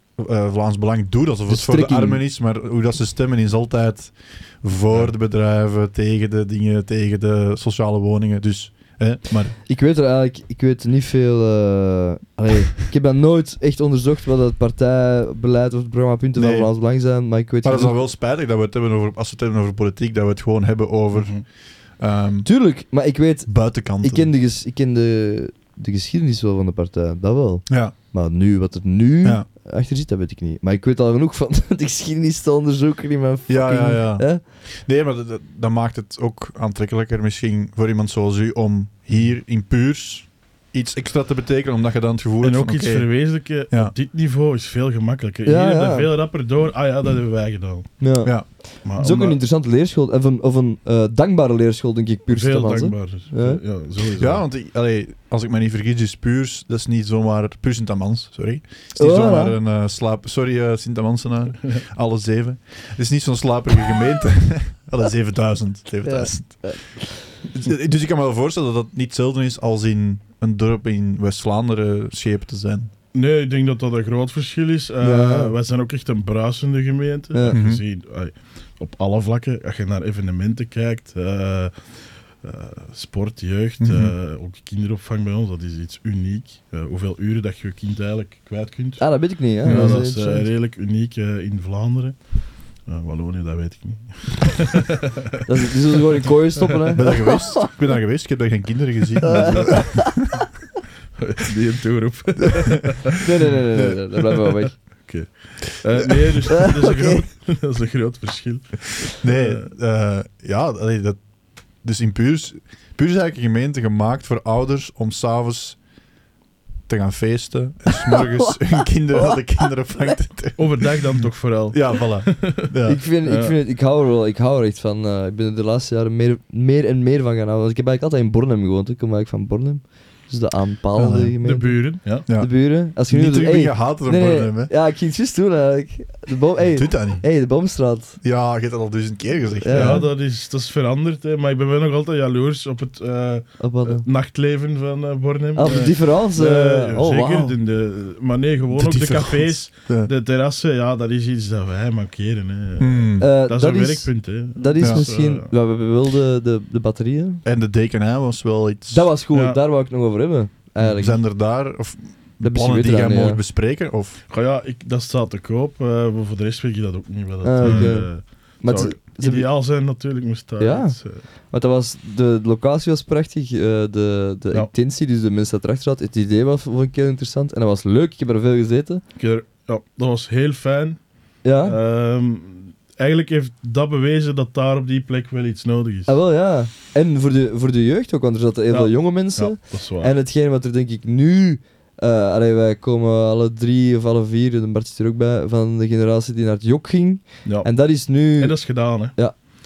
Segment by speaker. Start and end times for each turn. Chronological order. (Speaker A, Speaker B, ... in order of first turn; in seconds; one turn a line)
Speaker A: 0.1-9.6
Speaker B: 1.5-2.2
Speaker B: 9.7-18.0
Speaker A: 16.4-16.7
Speaker A: 17.6-22.5
Speaker C: 21.1-21.4
Speaker B: 22.4-34.4
Speaker A: 23.5-24.3
Speaker A: 27.7-27.9
Speaker A: 33.5-43.9
Speaker C: 42.4-48.0
Speaker B: 45.5-46.1
Speaker B: 48.0-53.6
Speaker C: 48.8-49.4
Speaker C: 52.3-54.4
Speaker A: 54.2-72.9
Speaker B: 58.9-59.6
Speaker B: 66.0-67.2
Speaker C: 73.1-95.2
Speaker B: 75.0-75.5
Speaker B: 77.3-77.6
Speaker A: 77.5-77.8
Speaker A: 83.8-84.1
Speaker B: 89.0-90.5
Speaker A: 89.6-90.0
Speaker B: 95.5-97.7
Speaker C: 96.2-96.9
Speaker A: 96.9-100.2
Speaker B: 99.2-100.3
Speaker C: 99.3-99.8
Speaker C: 101.2-103.5
Speaker B: 103.2-104.8
Speaker C: 105.0-109.6
Speaker B: 106.5-107.2
Speaker A: 109.2-111.2
Speaker A: 111.8-115.8
Speaker A: 116.9-123.0
Speaker B: 118.0-119.4
Speaker C: 120.6-123.5
Speaker B: 122.8-138.2
Speaker A: 130.9-131.3
Speaker C: 131.4-132.2
Speaker A: 132.2-134.7
Speaker A: 136.7-137.2
Speaker A: 138.2-140.0
Speaker B: 139.6-140.1
Speaker C: 139.7-155.5
Speaker B: 143.6-144.0
Speaker B: 145.6-147.6
Speaker A: 148.7-150.1
Speaker A: 152.8-153.3
Speaker B: 153.2-157.4
Speaker A: 157.4-159.1
Speaker B: 158.9-161.2
Speaker C: 159.3-159.6
Speaker A: 160.8-164.2
Speaker B: 162.4-163.4
Speaker C: 164.3-171.2
Speaker B: 167.4-169.5
Speaker A: 167.6-167.9
Speaker B: 170.6-179.0
Speaker C: 179.2-186.1
Speaker B: 181.4-181.8
Speaker B: 186.1-199.3
Speaker C: 188.7-190.1
Speaker C: 197.4-199.3